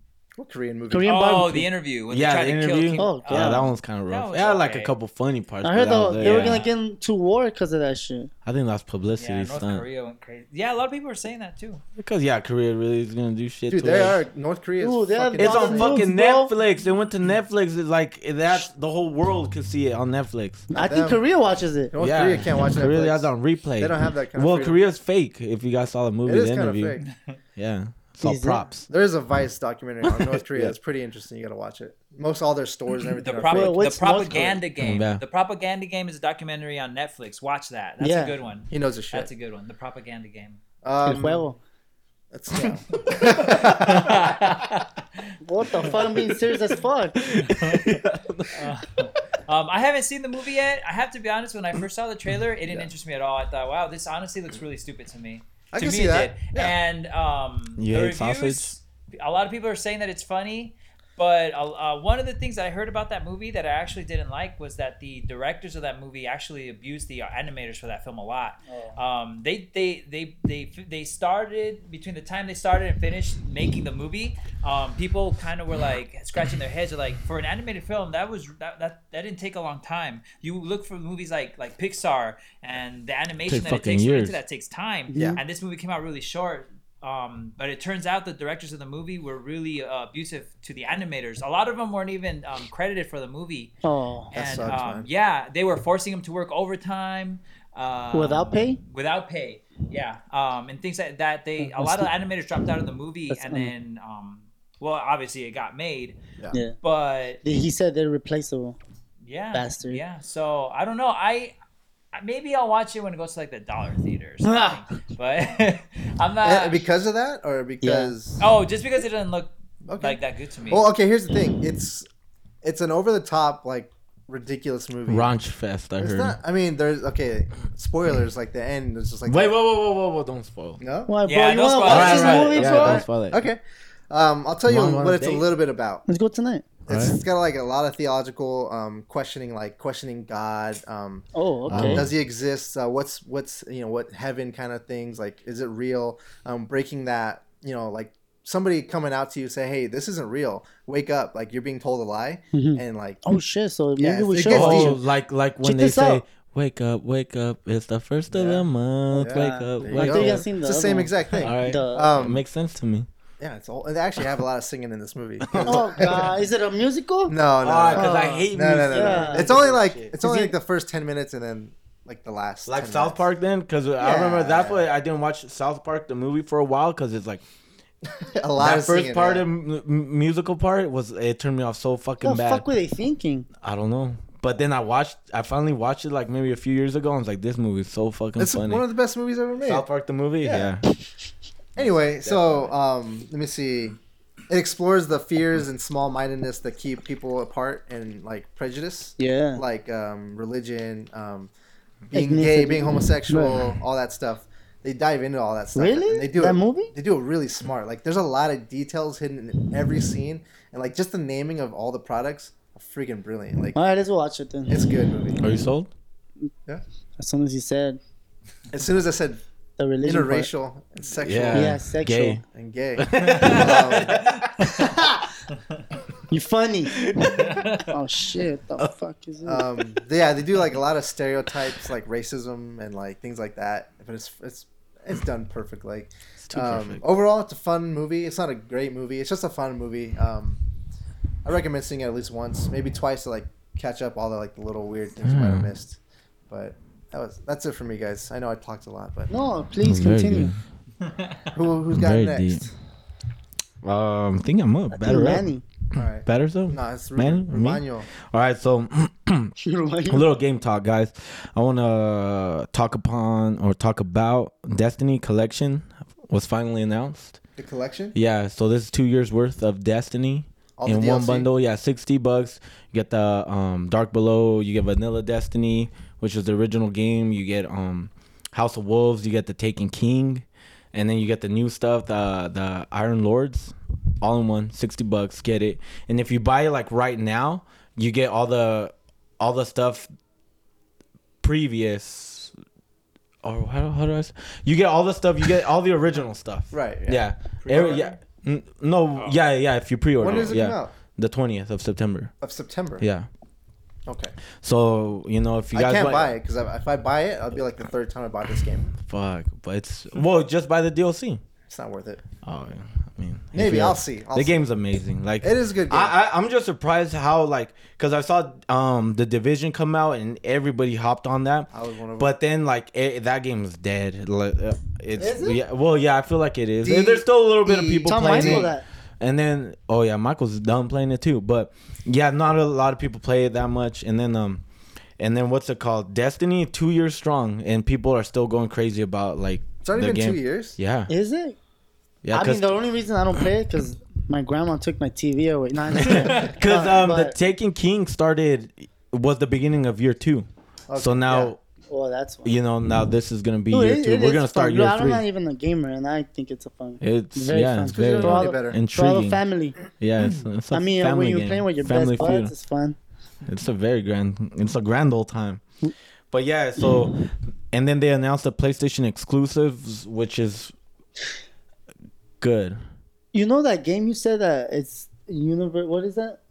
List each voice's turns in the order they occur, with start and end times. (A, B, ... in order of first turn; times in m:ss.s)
0:00.4-0:01.1 A
0:00.9-0:01.7 B
0:01.1-0:04.9 C
0:02.1-0:06.6 D
0:03.0-0:03.7 B
0:05.6-0:08.3 B
0:06.2-0:06.8 C
0:08.4-0:09.8 D
0:09.2-0:11.8 C
0:12.0-0:14.2 D
0:13.7-0:16.0 A
0:14.8-0:16.5 B
0:15.4-0:20.7 D
0:20.7-0:21.9 B
0:20.7-0:21.2 A
0:21.9-0:24.8 A
0:22.0-0:27.0 D
0:26.3-0:27.0 A
0:27.6-0:28.9 D
0:28.2-0:28.6 B
0:28.9-0:33.8 A
0:30.1-0:30.8 D
0:33.2-0:40.6 C
0:33.5-0:34.6 B
0:34.8-0:35.2 D
0:38.0-0:38.4 B
0:38.7-0:39.3 A
0:40.8-0:41.4 A
0:41.0-0:41.6 B
0:42.3-0:44.2 A
0:42.6-0:46.0 C
0:45.4-0:47.2 B
0:47.2-0:48.7 D
0:47.4-0:47.9 C
0:48.5-1:33.7 C
0:55.7-0:56.8 A
0:57.8-0:58.7 D
1:08.7-1:09.0 B
1:23.5-1:24.4 D
1:25.1-1:25.4 B
1:25.2-1:25.4 A
1:33.8-1:34.3 B
1:34.3-1:46.2 C
1:34.3-1:35.1 A
1:38.1-1:38.8 B
1:41.6-1:42.1 B
1:43.3-1:43.7 B
1:46.8-1:47.4 C
1:47.4-1:48.8 B
1:49.2-1:51.5 C
1:49.5-1:50.0 B
1:52.1-1:56.8 C
1:54.4-1:54.8 B
1:56.4-1:58.4 A
1:57.8-1:58.1 B
1:58.4-2:00.9 C
1:59.9-2:02.1 A
2:02.6-2:05.3 A
2:05.1-2:06.4 D
2:06.0-2:09.5 A
2:09.3-2:10.8 D
2:10.8-2:11.1 A
2:11.1-2:13.1 B
2:11.3-2:12.8 C
2:11.8-2:13.4 D
2:12.5-2:16.0 A
2:14.7-2:15.4 D
2:16.1-2:16.7 B
2:16.9-2:33.2 A
2:16.9-2:17.2 D
2:21.4-2:22.0 B
2:21.7-2:22.1 D
2:32.5-2:35.0 B
2:34.0-2:35.0 A
2:34.5-2:40.4 D
2:35.6-2:36.2 B
2:38.3-2:42.4 A
2:39.3-2:42.1 B
2:41.4-2:43.1 D
2:43.4-2:46.3 A
2:45.5-2:46.2 D
2:45.6-2:47.4 B
2:47.3-2:53.2 A
2:47.6-2:50.1 D
2:47.9-2:49.6 B
2:50.2-2:50.5 B
2:52.7-2:57.4 D
2:54.0-2:54.9 A
2:58.2-2:59.5 A
2:58.6-3:02.7 D
3:02.2-3:03.5 B
3:03.6-3:08.8 D
3:08.4-3:09.9 A
3:09.6-3:10.8 D
3:10.4-3:10.8 A
3:11.8-3:14.0 A
3:11.8-3:12.7 D
3:14.5-3:21.5 A
3:19.2-3:19.6 B
3:22.1-3:33.8 A
3:22.1-3:23.7 B
3:25.8-3:26.9 B
3:33.8-3:34.8 B
3:34.7-3:35.4 A
3:35.4-3:35.9 D
3:37.2-3:38.0 B
3:38.7-3:39.4 A
3:39.8-3:40.5 B
3:40.0-3:41.8 A
3:41.2-3:42.4 D
3:41.5-3:42.4 B
3:42.5-3:44.2 A
3:43.0-3:44.5 D
3:43.2-3:44.4 C
3:44.6-3:45.3 B
3:46.3-3:49.6 B
3:47.0-3:47.6 D
3:47.2-3:47.9 C
3:49.4-4:00.6 A
3:56.4-3:57.0 D
4:01.4-4:09.3 A
4:05.2-4:05.7 D
4:09.3-4:10.5 B
4:09.8-4:10.6 D
4:11.0-4:11.4 C
4:11.5-4:12.7 A
4:11.9-4:12.7 D
4:13.8-4:19.5 D
4:15.0-4:15.6 B
4:16.0-4:18.1 A
4:19.6-4:20.2 B
4:20.1-4:27.4 D
4:27.6-4:28.2 A
4:28.1-4:50.1 D
4:30.8-4:31.5 A
4:51.4-4:52.5 D
4:53.4-5:02.3 D
4:56.7-4:58.2 A
4:59.2-4:59.4 C
5:00.2-5:00.9 A
5:02.4-5:03.0 A
5:03.0-5:03.3 D
5:04.1-5:04.4 A
5:04.6-5:06.3 D
5:05.7-5:08.9 A
5:08.9-5:11.4 D
5:11.7-5:12.2 A
5:12.4-5:34.6 D
5:13.5-5:14.7 A
5:15.4-5:16.2 A
5:21.7-5:22.3 A
5:25.2-5:25.6 B
5:26.8-5:28.7 A
5:27.8-5:28.8 B
5:35.2-5:41.1 D
5:39.8-5:40.8 A
5:41.1-5:41.6 B
5:42.2-5:42.8 D
5:42.3-5:47.4 B
5:46.0-5:51.6 D
5:46.4-5:46.8 A
5:50.9-5:51.5 A
5:51.9-5:52.5 B
5:52.4-5:55.2 D
5:53.7-5:59.8 B
5:57.0-6:02.5 D
5:57.9-5:58.8 A
6:00.7-6:03.0 B
6:03.5-6:05.6 D
6:06.3-6:10.7 D
6:06.8-6:07.1 B
6:12.4-6:12.8 D
6:13.3-6:16.4 B